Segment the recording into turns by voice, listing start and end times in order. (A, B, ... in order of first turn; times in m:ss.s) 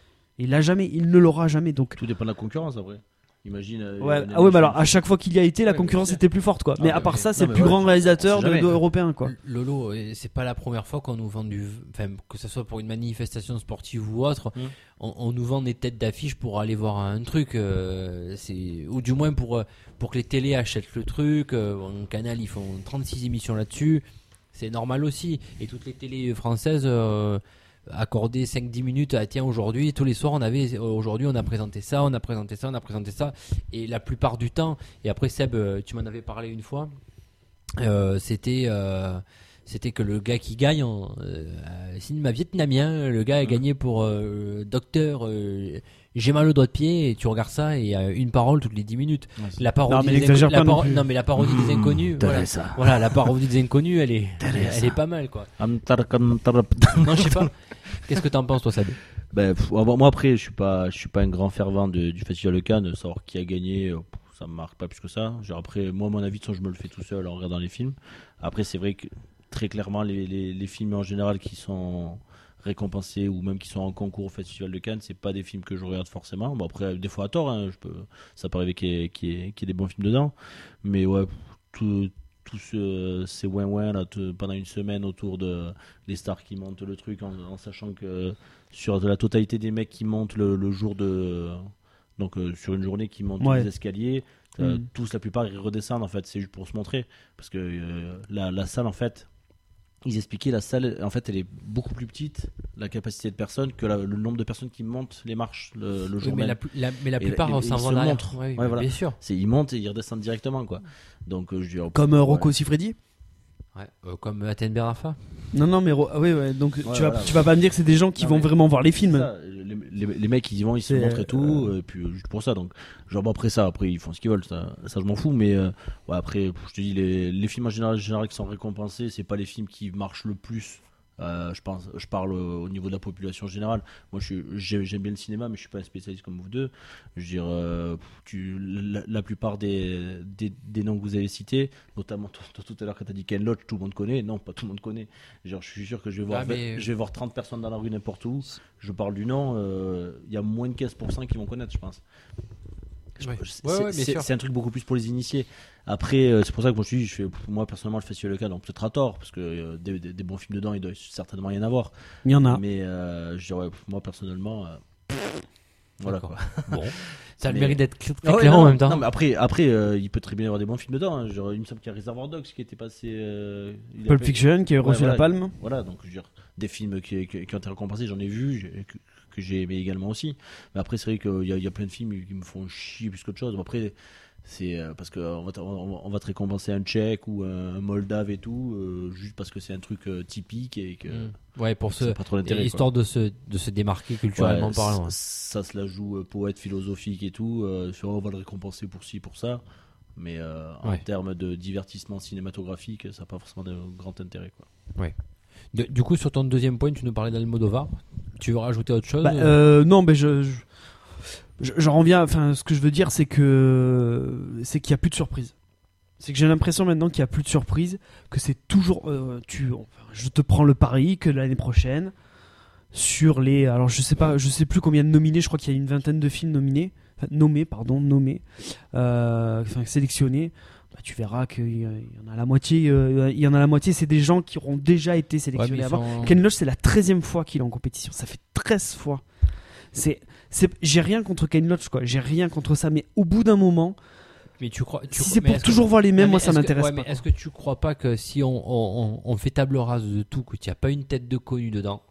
0:00.4-0:02.0 A
0:02.0-0:05.0 B
0:04.0-0:09.3 A
0:05.6-0:06.2 B
0:06.8-0:08.8 B
0:06.9-0:07.3 C
0:09.2-0:36.9 C
0:37.8-0:55.5 C
0:49.4-0:49.6 B
0:49.9-0:51.1 A
0:51.4-0:53.3 B
0:54.4-0:55.0 B
0:55.6-0:57.5 B
0:57.0-0:59.0 C
0:59.3-1:39.3 B
1:33.4-1:33.7 A
1:40.0-1:46.6 B
1:46.2-1:49.2 C
1:47.2-1:52.5 B
1:51.9-1:53.0 A
1:53.7-1:55.2 C
1:55.5-1:59.3 A
1:56.8-1:57.6 B
1:58.2-2:32.0 B
2:00.9-2:01.7 A
2:26.3-2:26.9 C
2:33.2-2:34.3 C
2:33.2-2:41.9 B
2:42.2-2:42.6 A
2:42.4-2:45.4 B
2:46.0-2:46.9 B
2:46.0-2:49.0 C
2:47.4-3:11.3 B
2:54.1-2:55.5 A
3:11.1-3:15.1 C
3:12.0-3:12.8 B
3:14.4-3:19.6 B
3:20.2-3:24.7 B
3:25.7-3:29.5 C
3:29.2-3:30.6 A
3:31.6-3:35.5 A
3:36.2-3:42.1 A
3:42.9-3:59.2 A
3:55.5-3:56.4 C
3:59.9-4:04.0 A
4:04.6-4:12.0 C
4:05.1-4:07.2 A